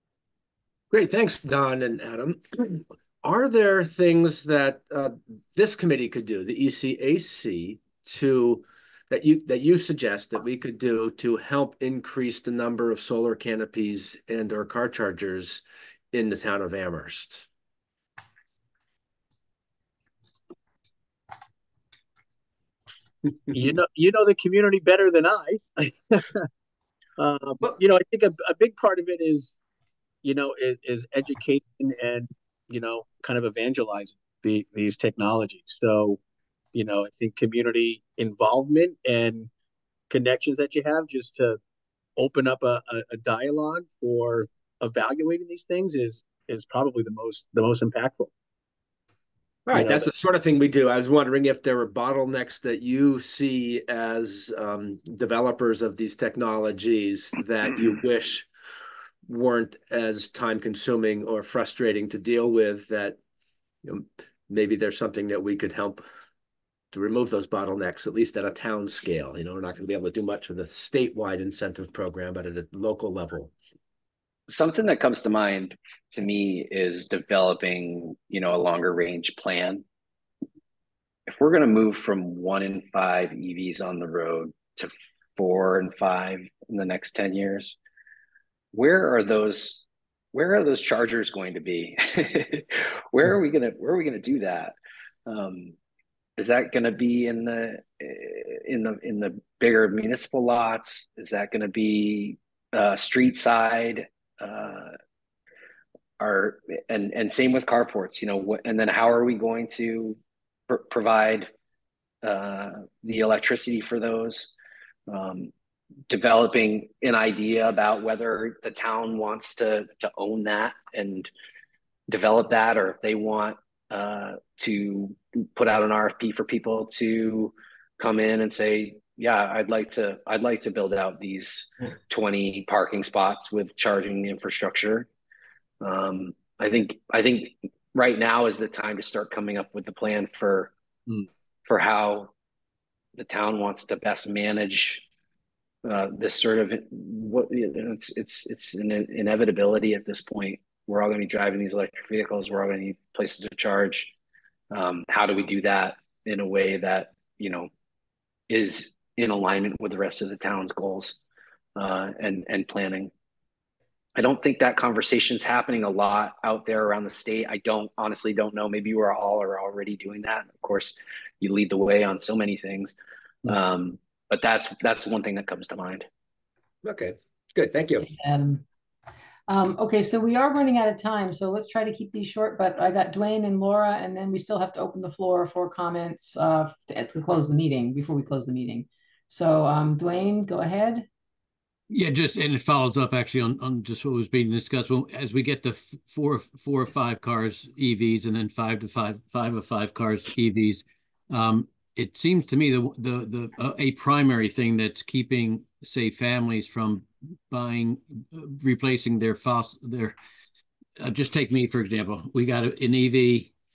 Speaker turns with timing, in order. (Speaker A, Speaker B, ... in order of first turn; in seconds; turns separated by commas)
Speaker A: 0.9-17.5, Speaker B: 23.5-26.5, Speaker B: 27.2-29.6, Speaker B: 30.2-36.2, Speaker B: 36.7-39.5, Speaker B: 40.1-41.6, Speaker B: 42.2-48.3, Speaker A: 49.7-58.5, Speaker B: 49.7-50.1, Speaker A: 59.3-63.2, Speaker A: 63.8-66.0, Speaker A: 66.9-73.5, Speaker C: 74.5-79.8, Speaker C: 81.3-87.8, Speaker C: 88.7-95.7, Speaker C: 96.4-104.9, Speaker C: 106.2-111.5, Speaker C: 112.2-114.5, Speaker C: 115.1-115.5, Speaker C: 116.1-121.3, Speaker C: 122.1-135.1, Speaker C: 135.8-140.7, Speaker C: 141.7-142.3, Speaker C: 143.2-145.0, Speaker C: 145.8-154.1, Speaker C: 154.7-157.7, Speaker C: 158.5-161.2, Speaker C: 161.8-163.1, Speaker C: 164.2-172.9, Speaker C: 173.5-176.1, Speaker A: 176.8-178.1, Speaker D: 178.0-178.6, Speaker D: 179.5-191.1, Speaker E: 191.9-210.2, Speaker E: 211.0-213.5